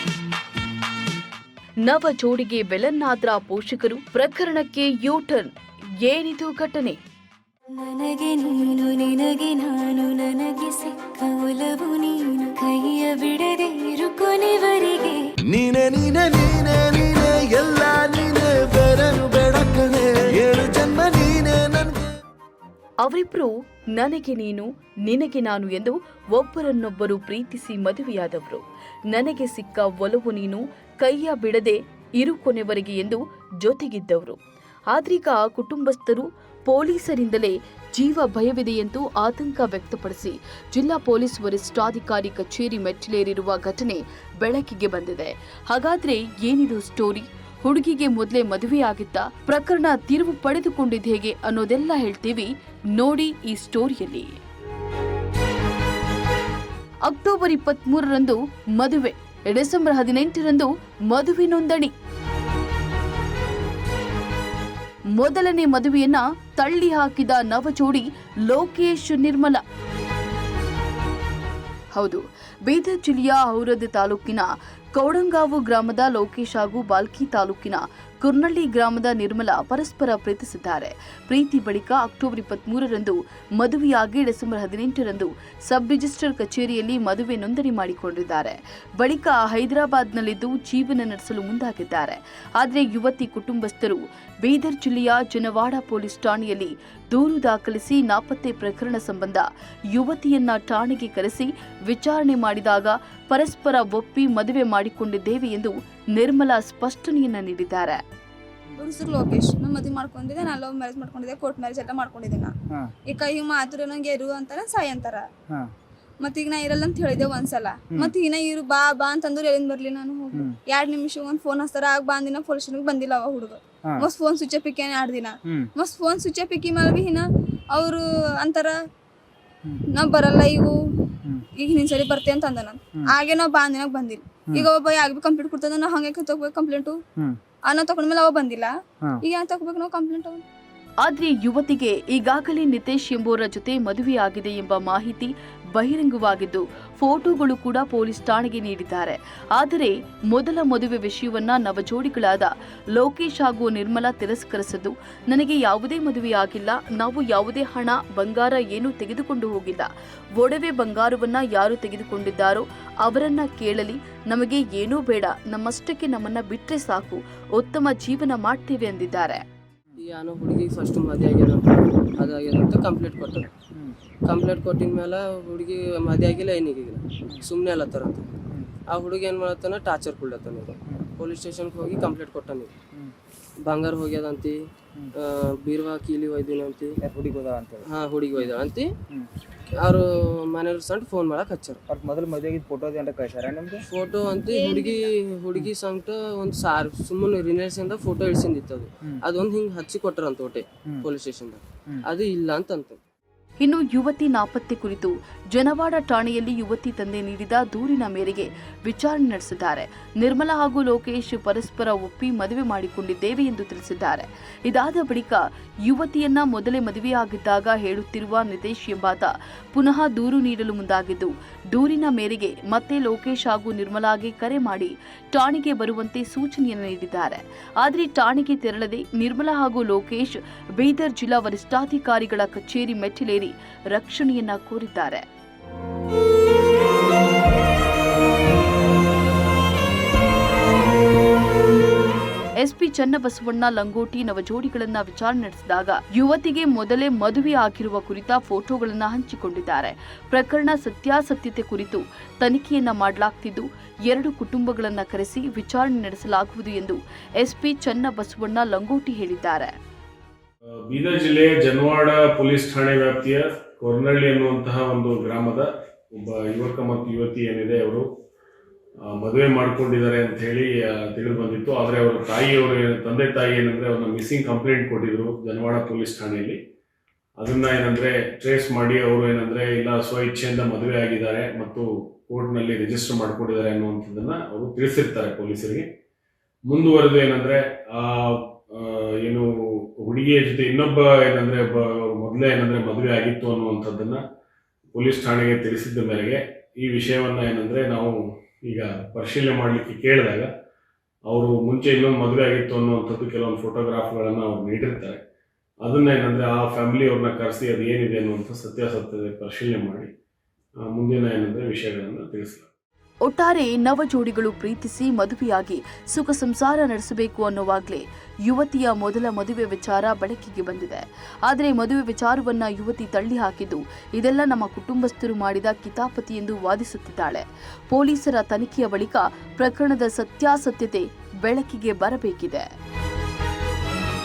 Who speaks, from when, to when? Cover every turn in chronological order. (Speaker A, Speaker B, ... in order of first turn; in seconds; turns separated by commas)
Speaker A: 1.9-5.5, Speaker A: 6.0-7.0, Speaker B: 7.8-15.3, Speaker C: 15.5-22.1, Speaker A: 23.0-34.4, Speaker A: 34.9-54.4, Speaker A: 57.1-61.9, Speaker A: 65.2-69.6, Speaker A: 72.0-108.0, Speaker D: 108.8-112.5, Speaker D: 113.0-115.3, Speaker D: 116.2-128.8, Speaker D: 129.9-130.8, Speaker D: 131.6-137.0, Speaker D: 137.7-140.4, Speaker A: 141.0-169.4, Speaker E: 170.0-173.5, Speaker E: 174.3-178.3, Speaker E: 178.9-182.7, Speaker E: 183.6-184.6, Speaker E: 185.2-186.9, Speaker F: 187.0-187.8, Speaker E: 187.9-188.9, Speaker E: 189.8-191.8, Speaker F: 191.9-193.8, Speaker E: 193.9-203.0, Speaker D: 194.5-195.1, Speaker A: 203.6-235.2, Speaker A: 242.6-259.7, Speaker G: 260.9-268.1, Speaker G: 269.1-276.6, Speaker G: 277.4-285.9, Speaker G: 286.7-294.2, Speaker G: 294.9-300.5, Speaker G: 301.3-305.2, Speaker G: 305.8-310.1, Speaker G: 310.9-312.7, Speaker A: 313.2-332.7